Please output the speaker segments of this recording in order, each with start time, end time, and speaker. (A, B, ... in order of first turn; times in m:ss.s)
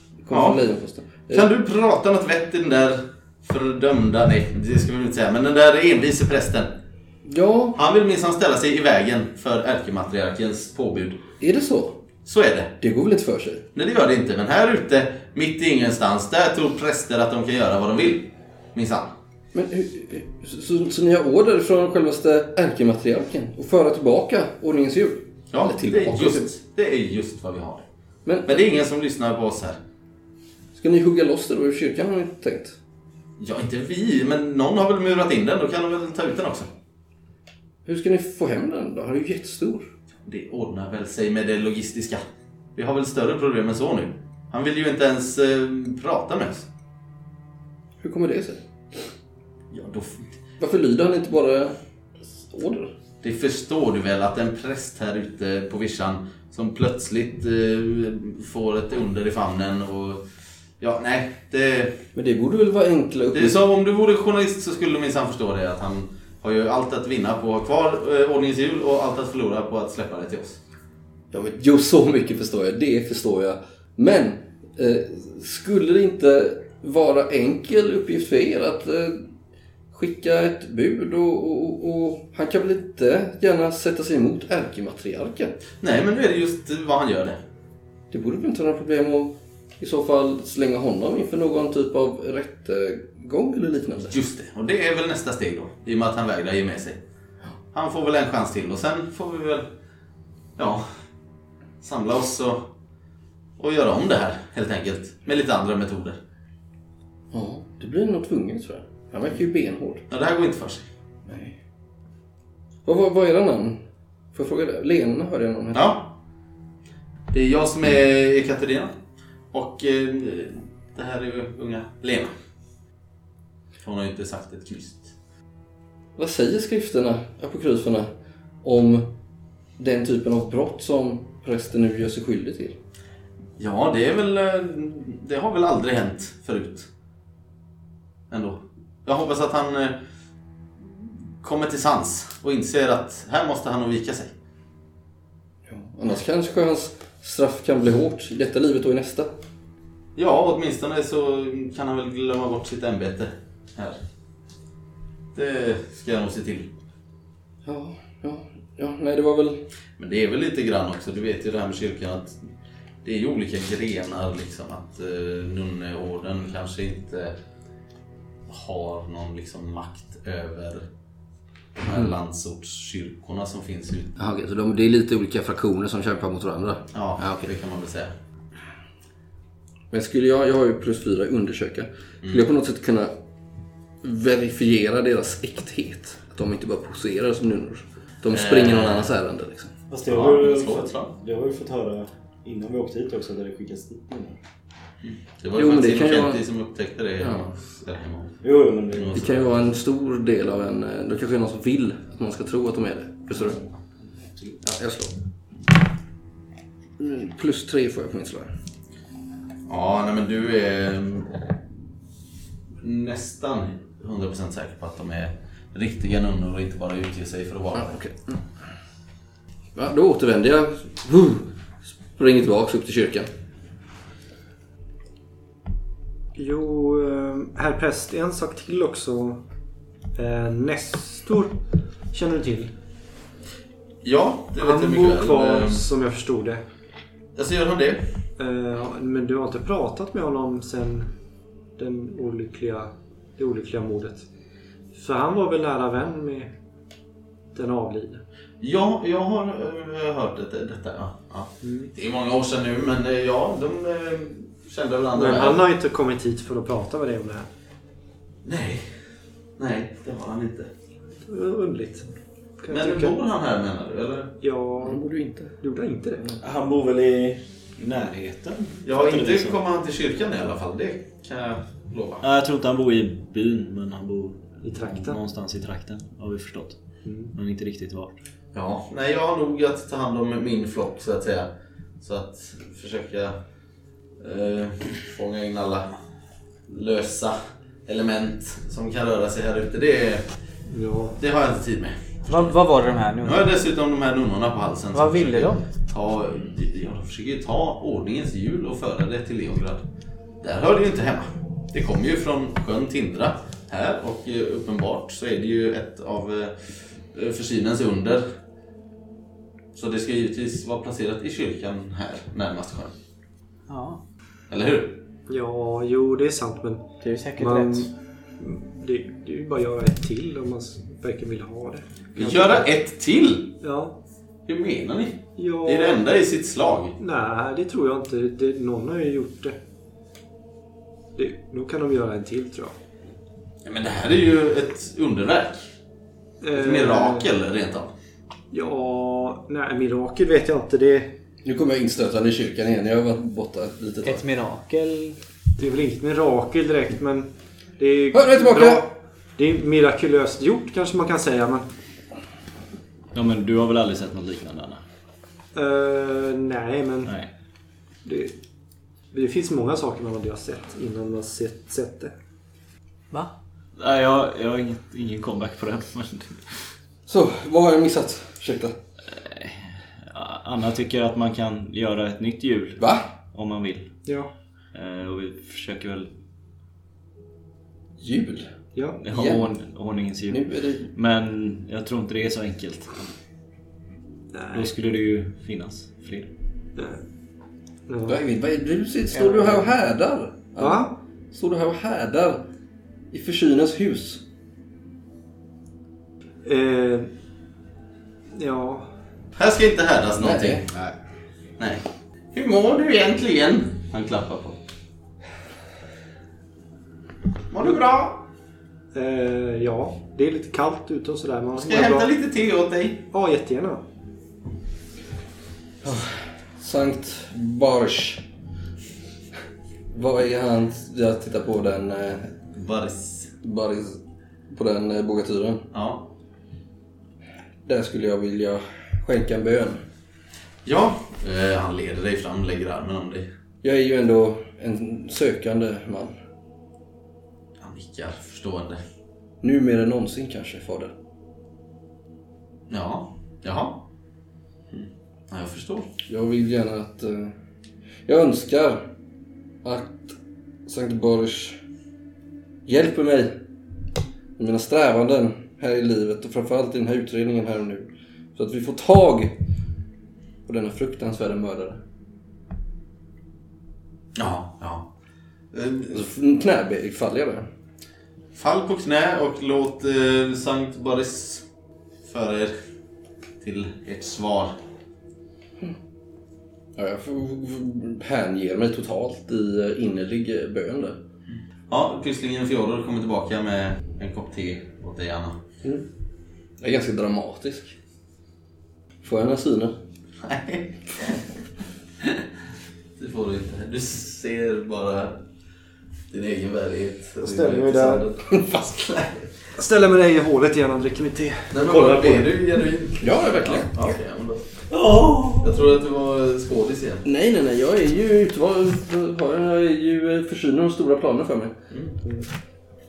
0:00.2-0:01.5 A
0:00.3-0:00.6 B
0:01.3-0:06.7 B
0:07.2-0:07.8 A
0:07.8-0:11.2 B
0:11.4-0:12.0 A
0:12.2-0:12.7 B
0:12.8-0:13.7 A
0:13.7-0:19.1 B
0:19.5-0:26.5 A
0:25.5-0:27.8 B
0:28.2-0:28.6 A
0:28.4-0:29.8 B
0:30.7-0:32.8 A
0:33.4-0:36.7 B
0:37.8-0:39.9 A
0:40.2-0:42.2 B
0:42.8-0:46.7 B
0:48.0-0:48.6 A
0:49.7-0:50.3 B
0:50.6-0:52.9 A
0:53.2-1:00.2 B
1:00.8-1:02.0 B
1:02.1-1:03.6 A
1:03.3-1:10.6 B
1:11.3-1:19.2 A
1:19.9-1:25.6 A
1:25.8-1:27.4 B
1:28.1-1:34.1 A
1:34.1-1:37.0 B
1:37.7-1:39.7 B
1:40.6-1:40.8 B
1:41.8-1:42.7 B
1:43.6-1:46.2 B
1:47.3-1:50.0 A
1:50.1-1:50.9 B
1:51.2-1:51.6 A
1:52.8-1:55.9 A
1:55.7-1:56.1 B
1:57.3-1:58.9 B
1:59.5-2:02.3 B
2:03.8-2:05.1 B
2:06.2-2:08.1 A
2:08.6-2:09.2 A
2:09.8-2:12.8 A
2:13.6-2:16.9 B
2:18.3-2:20.0 B
2:20.8-2:24.3 B
2:25.7-2:29.3 A
2:30.2-2:34.0 B
2:35.3-2:36.7 B
2:37.6-2:39.6 A
2:40.0-2:42.4 B
2:43.0-2:47.4 B
2:48.5-2:50.9 B
2:51.8-2:54.2 B
2:51.9-2:52.1 A
2:54.2-2:57.5 A
2:56.9-2:58.1 B
2:59.9-3:03.1 A
3:04.0-3:09.7 A
3:08.3-3:09.1 B
3:09.9-3:14.4 C
3:10.0-3:11.1 B
3:15.0-3:19.6 B
3:15.6-3:16.4 A
3:18.4-3:19.2 C
3:19.1-3:23.6 A
3:24.2-3:24.6 C
3:24.6-3:25.1 A
3:27.0-3:28.5 A
3:29.6-3:31.5 B
3:32.8-3:38.0 B
3:37.7-3:38.4 A
3:39.7-3:43.3 A
3:46.4-3:49.4 D
3:50.2-3:51.6 D
3:52.1-3:52.7 D
3:54.0-3:55.8 B
3:54.6-3:56.6 D
3:57.4-3:58.1 B
3:58.4-4:01.1 D
4:01.8-4:04.2 D
4:04.9-4:06.5 D
4:07.5-4:08.2 D
4:08.6-4:15.6 B
4:11.6-4:11.9 D
4:15.1-4:17.5 D
4:18.4-4:18.8 B
4:19.6-4:20.7 B
4:21.2-4:22.1 D
4:22.6-4:23.1 D
4:22.7-4:24.3 B
4:24.4-4:25.1 D
4:24.8-4:25.6 A
4:25.6-4:26.4 D
4:26.4-4:29.5 C
4:28.8-4:32.2 B
4:32.2-4:36.8 C
4:34.6-4:35.2 D
4:37.0-4:37.3 D
4:37.3-4:38.2 C
4:38.5-4:43.4 B
4:44.2-4:45.9 B
4:46.7-4:50.2 B
4:50.7-4:51.2 D
4:51.2-4:52.5 B
4:52.3-4:53.5 E
4:53.2-4:59.8 B
4:54.9-4:55.6 E
5:00.4-5:08.2 B
5:09.7-5:12.9 B
5:13.7-5:14.0 E
5:14.5-5:15.0 B
5:15.3-5:16.8 D
5:17.0-5:17.9 E
5:17.4-5:22.6 D
5:22.1-5:23.6 B
5:23.6-5:24.0 D
5:24.5-5:27.0 B
5:25.4-5:26.0 D
5:27.0-5:29.6 D
5:31.1-5:32.7 D
5:33.6-5:35.7 B
5:36.4-5:37.3 D
5:36.5-5:37.9 B
5:38.5-5:41.2 D
5:41.4-5:44.2 A
5:44.0-5:45.2 E
5:45.6-5:51.7 D
5:48.1-5:48.9 A
5:53.1-5:54.8 C
5:55.5-5:57.1 D
5:57.0-5:57.3 C
5:58.0-5:58.4 D
5:59.1-6:02.1 D
6:03.8-6:06.4 C
6:07.1-6:08.8 A
6:09.1-6:13.9 C
6:12.8-6:13.1 A
6:14.0-6:14.3 D
6:14.7-6:16.1 C
6:18.0-6:18.5 A
6:18.7-6:19.0 D
6:19.0-6:23.0 C
6:19.1-6:19.5 A
6:20.3-6:20.9 A
6:24.3-6:24.6 D
6:24.5-6:26.3 C
6:26.8-6:27.0 D
6:27.9-6:28.2 D
6:28.0-6:32.4 A
6:29.1-6:29.5 E
6:30.6-6:31.0 D
6:33.1-6:34.2 A
6:36.4-6:37.1 D
6:38.3-6:38.9 D
6:39.4-6:40.6 B
6:40.2-6:40.8 A
6:41.6-6:44.6 B
6:47.5-6:48.3 B
6:48.9-6:52.1 D
6:51.6-6:53.1 B
6:53.1-6:53.8 D
6:55.8-6:58.2 A
6:59.9-7:02.3 A
7:02.5-7:03.3 B
7:03.4-7:04.0 A
7:04.5-7:05.7 A
7:05.7-7:06.1 B
7:07.6-7:09.8 A
7:10.6-7:13.3 B
7:13.6-7:16.2 A
7:17.6-7:18.8 B
7:19.4-7:20.9 A
7:22.7-7:23.9 B
7:24.7-7:25.9 B
7:26.1-7:27.3 A
7:28.0-7:28.9 A
7:29.6-7:31.6 A
7:32.6-7:33.4 A
7:34.4-7:39.4 A
7:40.4-7:41.8 A
7:44.2-7:44.9 B
7:45.5-7:46.0 B
7:45.9-7:47.5 A
7:48.3-7:51.4 B
7:52.0-7:52.5 B
7:53.4-7:54.5 B
7:56.8-8:01.0 A
8:01.7-8:05.4 B
8:06.6-8:07.8 A
8:09.0-8:09.8 A
8:10.2-8:11.2 B
8:13.0-8:15.2 B
8:16.1-8:19.2 B
8:17.2-8:18.1 E
8:19.6-8:22.6 D
8:21.5-8:24.5 B
8:23.0-8:23.9 A
8:24.8-8:25.4 C
8:25.4-8:27.0 B
8:27.0-8:31.6 A
8:31.7-8:32.0 B